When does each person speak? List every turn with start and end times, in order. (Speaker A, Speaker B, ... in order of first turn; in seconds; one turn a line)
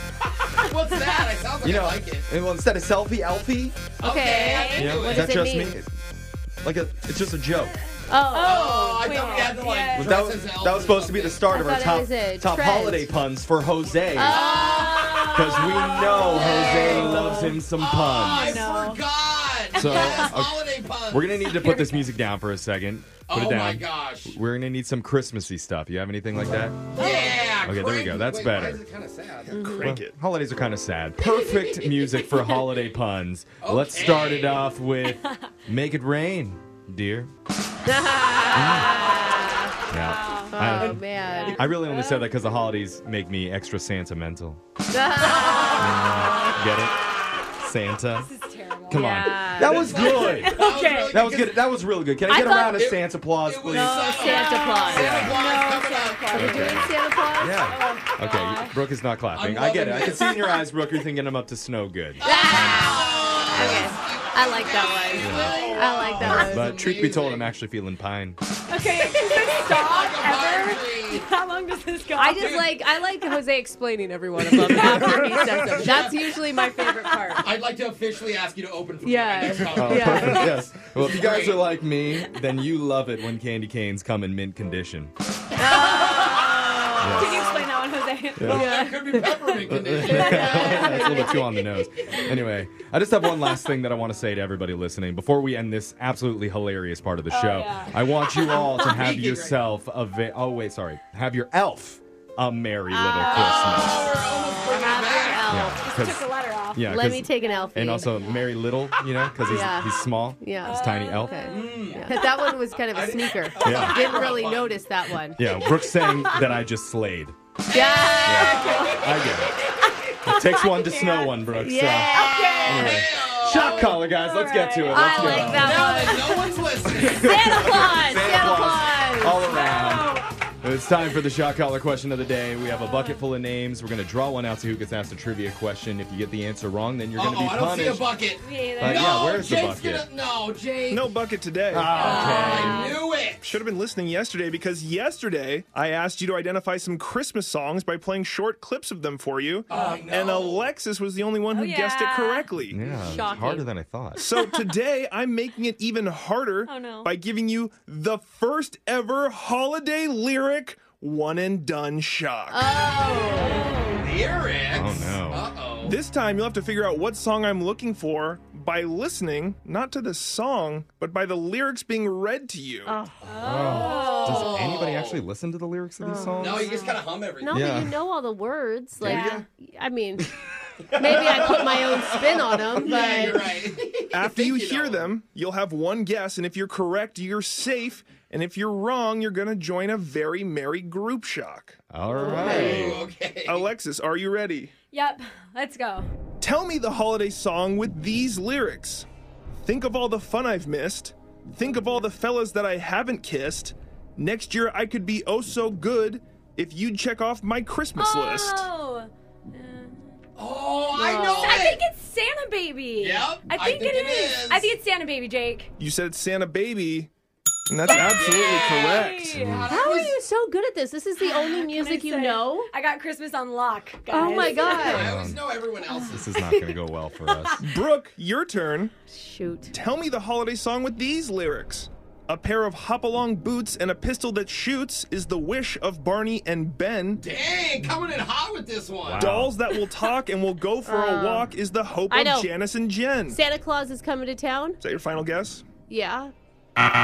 Speaker A: 0.5-2.3
Speaker B: 1.6-3.8
Speaker A: 4.0-5.5
Speaker C: 4.0-5.8
Speaker D: 4.2-5.0
Speaker B: 4.7-5.9
Speaker B: 6.6-7.8
Speaker C: 8.1-8.8
Speaker D: 8.3-10.2
Speaker A: 8.4-11.6
Speaker B: 9.9-14.4
Speaker C: 11.5-13.1
Speaker A: 13.8-21.7
Speaker C: 14.1-15.3
Speaker D: 14.4-17.6
Speaker B: 15.3-18.6
Speaker C: 15.9-16.7
Speaker D: 18.2-19.0
Speaker B: 19.7-26.9
Speaker D: 19.8-20.3
Speaker D: 21.5-22.1
Speaker A: 23.3-24.4
Speaker A: 26.9-29.6
Speaker D: 27.0-27.5
Speaker B: 27.6-28.8
Speaker E: 29.5-30.2
Speaker C: 29.5-29.9
Speaker B: 29.8-37.3
Speaker A: 33.6-34.7
Speaker C: 37.9-39.7
Speaker D: 38.5-42.4
Speaker B: 38.5-39.0
Speaker B: 39.9-44.6
Speaker C: 40.5-41.7
Speaker C: 44.9-46.5
Speaker D: 45.2-46.6
Speaker B: 45.8-47.0
Speaker B: 47.6-48.3
Speaker D: 48.2-51.2
Speaker B: 48.9-54.2
Speaker C: 48.9-49.9
Speaker A: 49.6-51.7
Speaker C: 52.3-52.9
Speaker A: 52.4-56.8
Speaker C: 53.7-55.2
Speaker D: 53.8-56.9
Speaker B: 54.9-55.4
Speaker C: 56.3-57.7
Speaker B: 56.4-62.8
Speaker D: 57.6-58.8
Speaker A: 59.3-60.4
Speaker A: 62.2-67.5
Speaker C: 62.2-66.7
Speaker D: 62.6-63.4
Speaker B: 65.2-65.5
Speaker D: 65.7-66.1
Speaker B: 66.2-68.4
Speaker D: 68.7-72.6
Speaker A: 69.3-71.3
Speaker C: 72.2-77.5
Speaker A: 72.4-72.8
Speaker A: 74.6-76.4
Speaker D: 76.0-77.4
Speaker A: 77.3-81.8
Speaker C: 79.0-80.5
Speaker B: 79.7-85.1
Speaker C: 85.6-87.7
Speaker D: 85.6-89.0
Speaker A: 86.0-86.7
Speaker B: 87.0-87.5
Speaker B: 88.4-88.7
Speaker C: 88.4-89.5
Speaker A: 88.4-91.6
Speaker B: 89.7-104.1
Speaker D: 90.0-91.6
Speaker D: 97.3-98.0
Speaker A: 98.4-99.7
Speaker C: 103.0-103.5
Speaker D: 103.2-103.8
Speaker A: 103.3-105.7
Speaker C: 104.1-105.8
Speaker B: 105.5-111.7
Speaker D: 105.8-108.5
Speaker C: 106.8-108.2
Speaker C: 109.4-115.4
Speaker D: 110.6-112.6
Speaker A: 111.5-112.3
Speaker A: 112.8-114.9
Speaker B: 113.6-114.0
Speaker D: 114.0-114.4
Speaker B: 115.4-117.3
Speaker D: 115.6-116.6
Speaker C: 117.7-118.9
Speaker D: 117.7-123.0
Speaker B: 118.2-119.6
Speaker A: 118.3-119.6
Speaker B: 120.2-125.9
Speaker C: 121.5-122.9
Speaker A: 122.4-124.0
Speaker D: 123.8-126.5
Speaker C: 124.9-126.5
Speaker A: 125.5-127.6
Speaker B: 126.9-138.1
Speaker D: 127.2-130.3
Speaker C: 127.6-129.6
Speaker D: 132.8-133.2
Speaker A: 137.1-141.1
Speaker D: 138.4-139.3
Speaker B: 138.8-140.1
Speaker E: 140.9-142.2
Speaker B: 141.7-142.8
Speaker A: 141.9-143.6
Speaker D: 141.9-143.0
Speaker E: 143.4-152.8
Speaker A: 149.7-150.7
Speaker D: 151.5-152.5
Speaker B: 152.7-154.2
Speaker C: 152.8-153.7
Speaker E: 154.2-163.0
Speaker D: 154.2-154.6
Speaker D: 156.7-157.1
Speaker C: 162.5-163.7
Speaker D: 163.3-164.1
Speaker A: 163.9-166.0
Speaker B: 164.7-165.5
Speaker E: 165.8-172.9
Speaker D: 172.9-174.6
Speaker B: 173.4-176.8
Speaker A: 173.6-175.2
Speaker C: 173.9-174.2
Speaker C: 176.0-180.3
Speaker A: 176.4-177.8
Speaker B: 177.5-177.9
Speaker B: 179.0-179.4
Speaker D: 179.0-179.4
Speaker A: 180.9-185.1
Speaker C: 180.9-183.6
Speaker E: 184.1-191.8
Speaker B: 191.9-193.1
Speaker C: 192.1-192.9
Speaker A: 192.3-193.7
Speaker E: 193.5-194.7
Speaker D: 194.9-196.1
Speaker E: 196.4-199.1
Speaker E: 199.6-208.7
Speaker D: 208.0-210.1
Speaker A: 210.4-211.8
Speaker C: 211.0-211.7
Speaker D: 211.4-215.7
Speaker A: 213.0-214.7
Speaker E: 215.8-217.1
Speaker E: 217.7-219.4
Speaker D: 217.8-219.7
Speaker A: 217.9-220.2
Speaker B: 219.2-219.7
Speaker C: 219.7-222.7
Speaker D: 221.2-225.0
Speaker C: 224.1-225.1
Speaker A: 224.7-226.3
Speaker B: 224.9-225.4
Speaker D: 225.9-227.6
Speaker B: 226.1-227.6
Speaker E: 227.6-228.9
Speaker C: 229.1-229.7
Speaker E: 229.7-237.2
Speaker A: 237.2-239.4
Speaker B: 239.0-239.6
Speaker E: 239.2-243.4
Speaker C: 240.9-241.5
Speaker C: 242.1-242.5
Speaker C: 243.3-244.8
Speaker E: 244.8-245.6
Speaker C: 245.9-246.3